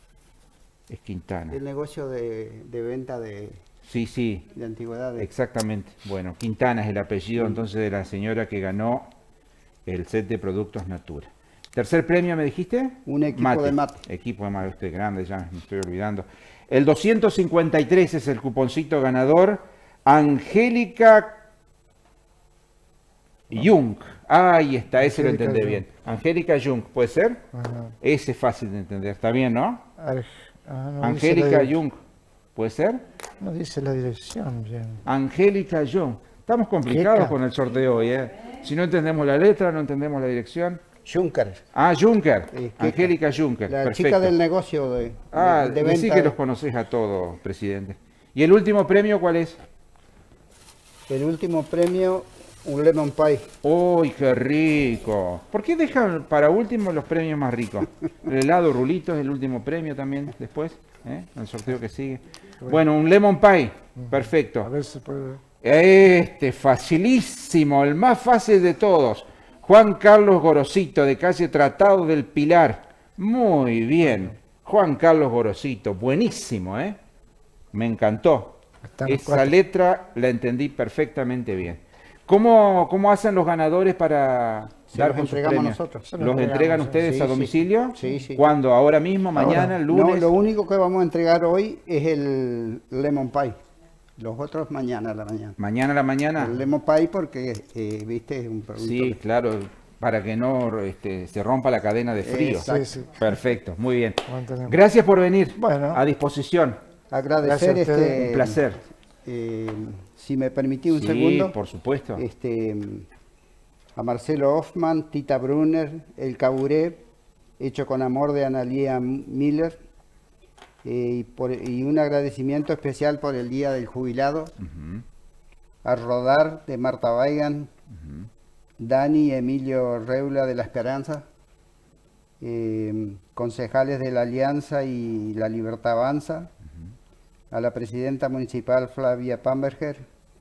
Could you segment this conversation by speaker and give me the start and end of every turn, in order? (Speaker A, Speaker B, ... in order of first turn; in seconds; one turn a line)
Speaker A: 0.9-1.6
Speaker B: 1.5-3.6
Speaker A: 3.8-4.5
Speaker B: 4.5-5.3
Speaker A: 5.2-9.1
Speaker A: 9.8-21.4
Speaker B: 13.1-14.0
Speaker A: 23.5-27.4
Speaker C: 25.0-25.8
Speaker C: 27.5-27.9
Speaker A: 28.0-29.8
Speaker C: 30.0-31.7
Speaker A: 31.0-32.0
Speaker A: 32.5-33.0
Speaker C: 33.4-35.0
Speaker A: 35.0-40.8
Speaker C: 36.9-37.3
Speaker B: 41.0-41.6
Speaker A: 41.7-44.3
Speaker B: 42.5-43.1
Speaker B: 43.7-46.4
Speaker A: 45.3-49.6
Speaker B: 51.1-53.5
Speaker A: 53.6-64.7
Speaker C: 64.0-65.4
Speaker A: 65.6-77.0
Speaker A: 77.7-90.3
Speaker C: 78.9-79.5
Speaker B: 84.9-86.1
Speaker C: 86.1-87.0
Speaker B: 87.0-88.5
Speaker C: 89.3-89.8
Speaker B: 89.9-93.5
Speaker B: 94.2-95.6
Speaker A: 95.6-96.6
Speaker B: 96.4-99.2
Speaker A: 98.8-106.8
Speaker B: 102.2-102.9
Speaker C: 102.6-103.3
Speaker C: 104.3-104.8
Speaker C: 105.6-106.0
Speaker B: 107.1-108.6
Speaker C: 107.4-108.2
Speaker A: 108.2-108.8
Speaker B: 109.2-111.5
Speaker A: 110.9-112.2
Speaker B: 112.2-113.1
Speaker B: 114.0-117.0
Speaker B: 117.6-119.8
Speaker B: 120.8-124.5
Speaker A: 124.6-125.0
Speaker B: 125.8-127.7
Speaker A: 127.9-128.3
Speaker B: 128.8-131.2
Speaker B: 132.4-136.5
Speaker B: 137.5-140.0